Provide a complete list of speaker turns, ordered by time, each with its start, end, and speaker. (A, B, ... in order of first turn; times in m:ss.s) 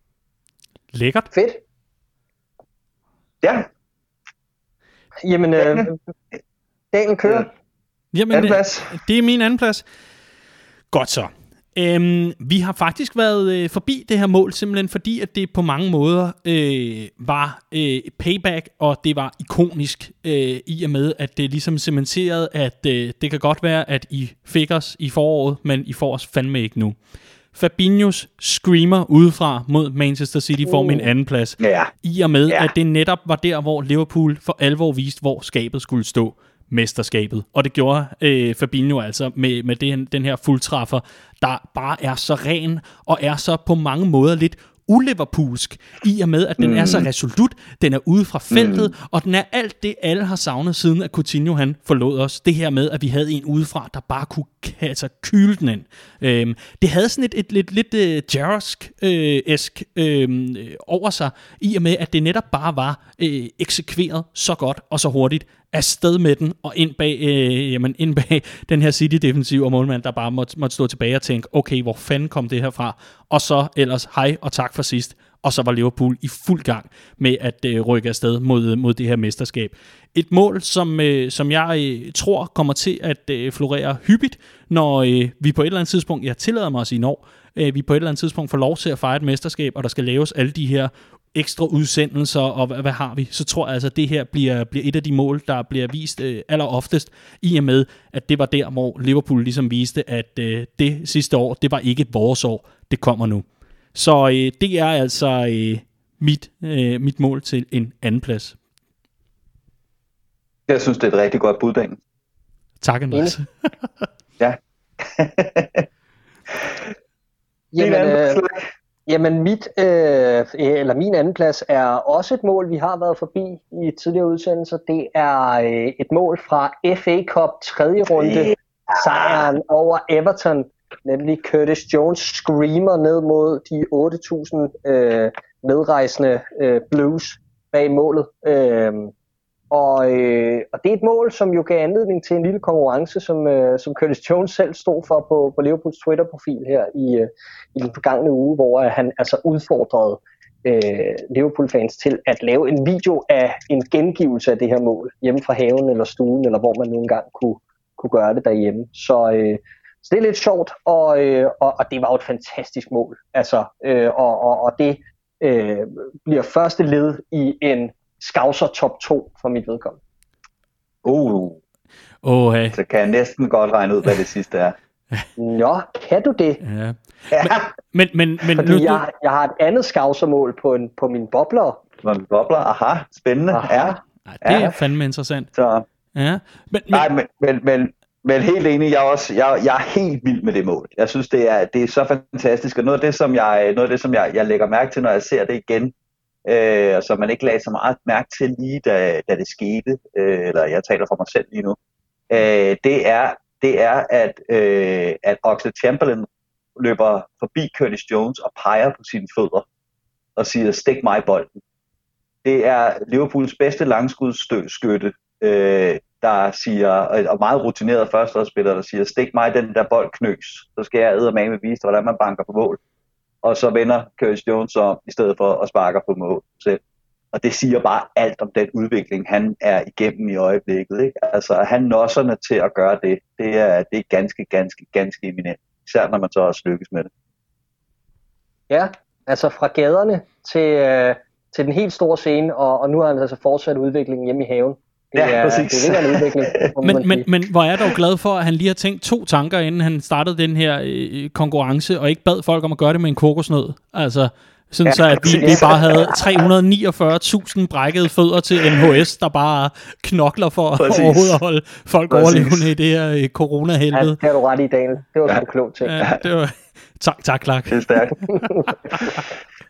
0:00.9-0:01.3 A
0:01.3-0:01.6 B
0:03.4-0:03.7 C
0:05.2-0:05.9 B
0:05.6-0:05.9 C
0:06.9-0:07.5 B
0:08.1-0:09.8 A
0:08.3-0:09.0 C
0:10.9-0:27.0 A
0:27.5-1:48.6 A
0:30.7-0:31.1 B
0:31.6-0:31.9 C
0:46.6-0:47.1 C
0:48.5-0:48.9 C
1:50.7-1:52.0 C
1:52.8-1:53.4 A
1:54.4-1:55.8 C
1:57.7-1:58.4 B
1:57.8-1:58.6 C
1:59.1-2:19.1 B
2:08.2-2:08.5 C
2:19.7-2:50.0 B
2:51.0-2:51.6 C
2:52.2-2:52.8 A
2:52.7-2:54.8 C
2:55.4-2:56.6 B
2:56.6-2:59.0 A
2:57.3-2:57.6 C
2:58.6-3:01.8 B
3:02.0-3:04.7 C
3:03.5-3:04.0 B
3:04.3-3:05.5 A
3:05.5-3:05.8 C
3:06.1-3:07.1 A
3:06.9-3:21.8 C
3:22.3-3:29.6 C
3:30.4-3:31.6 C
3:32.4-3:42.8 C
3:43.4-3:46.8 C
3:47.3-3:57.1 C
3:58.7-4:07.2 B
4:05.1-4:06.6 C
4:06.8-4:24.2 A
4:14.8-4:16.4 C
4:15.4-4:15.6 B
4:20.8-4:21.4 C
4:22.1-4:22.7 C
4:23.9-4:26.0 B
4:25.8-4:29.1 A
4:27.7-4:28.2 C
4:28.3-4:28.7 B